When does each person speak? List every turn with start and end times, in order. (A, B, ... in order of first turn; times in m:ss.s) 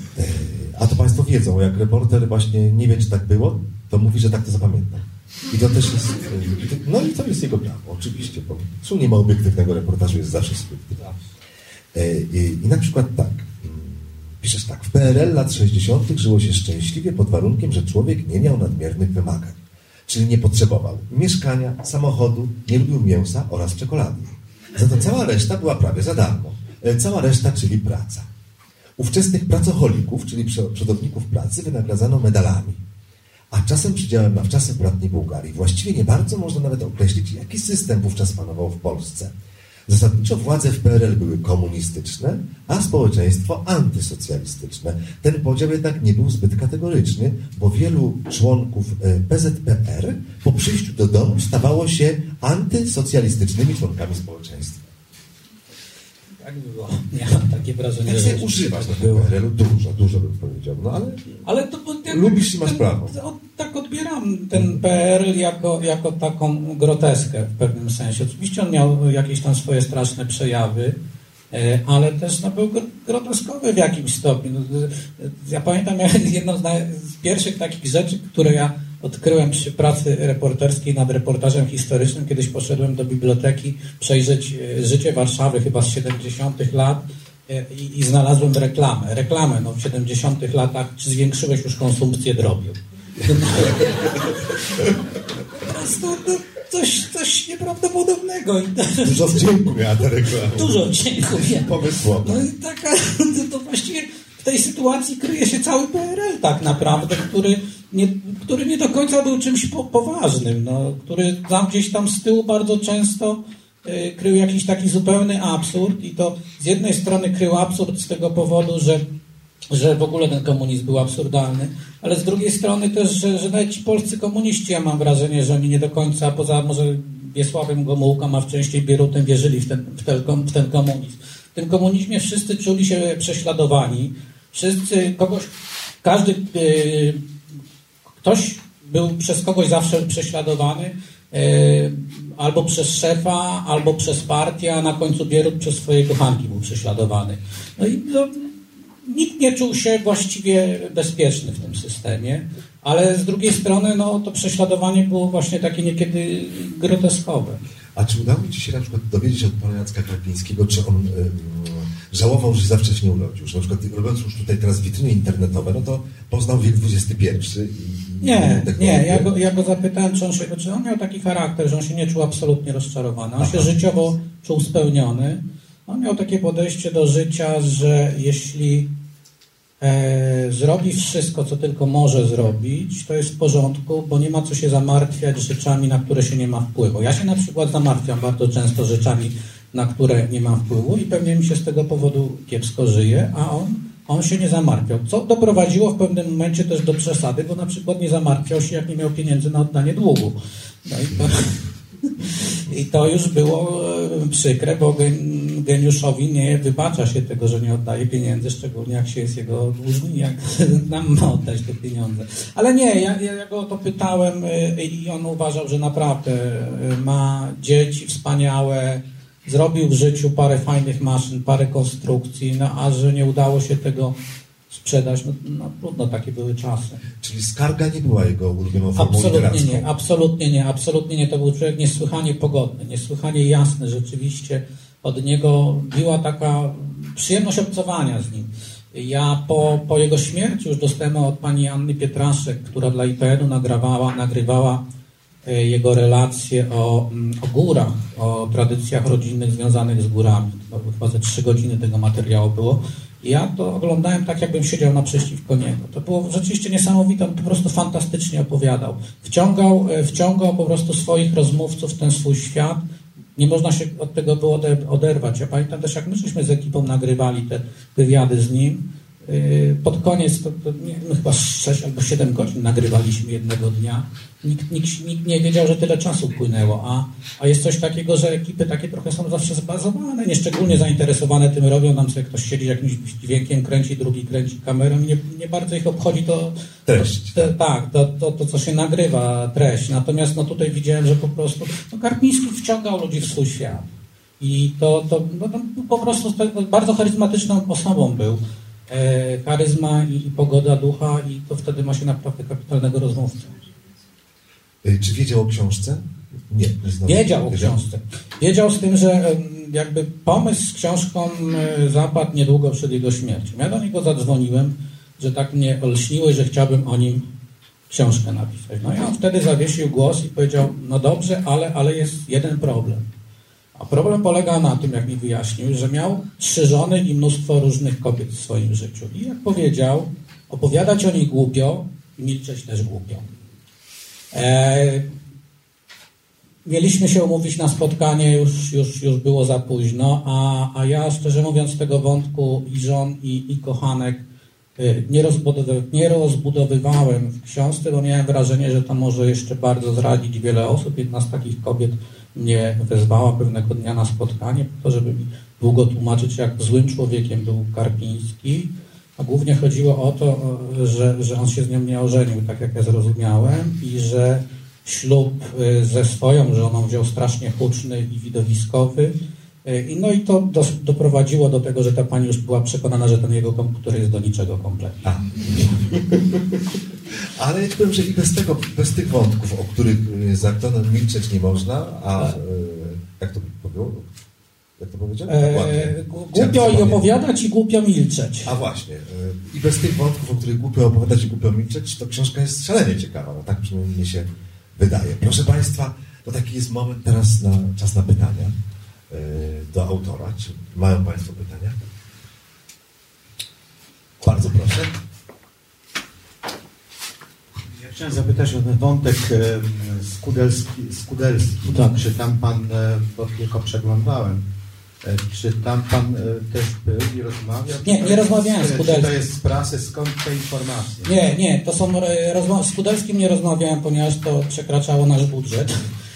0:00.2-0:11.1 A
0:11.9-0:28.3 A
0:29.0-0:32.8 A
0:33.5-0:39.3 A
0:39.9-0:54.8 A
0:56.4-0:59.3 B
0:58.1-1:01.4 A
1:01.4-1:11.0 B
1:02.1-1:03.2 A
1:04.5-1:04.8 A
1:11.5-1:34.6 B
1:33.3-1:34.1 A
1:35.6-1:39.4 B
1:39.0-1:42.4 A
1:40.5-1:41.7 B
1:42.2-1:59.0 B
1:59.7-2:15.5 B
2:16.0-2:17.2 B
2:18.2-2:37.6 B
2:38.0-2:49.3 A
2:48.2-2:58.9 B
2:53.4-2:53.7 A
2:59.8-3:21.6 B
3:22.1-3:44.2 B
3:44.7-3:47.0 B
3:47.2-3:49.9 A
3:49.0-4:04.8 B
4:05.5-4:22.8 B
4:23.4-4:53.9 B
4:46.9-4:47.5 A
4:54.4-5:03.5 B
5:04.8-5:07.8 A
5:07.1-5:17.2 B
5:17.9-5:23.1 B
5:23.8-5:33.2 B
5:34.3-5:35.1 B
5:36.6-5:44.2 B
5:44.8-6:09.1 B
6:09.6-6:15.1 B
6:15.0-6:16.6 A
6:17.4-6:24.1 A
6:24.8-6:27.0 A
6:25.3-6:28.5 B
6:28.4-6:38.5 A
6:39.1-6:41.8 A
6:44.2-6:45.0 A
6:47.7-6:54.4 C
6:55.0-7:01.1 C
6:57.8-6:59.1 B
7:01.0-7:05.7 B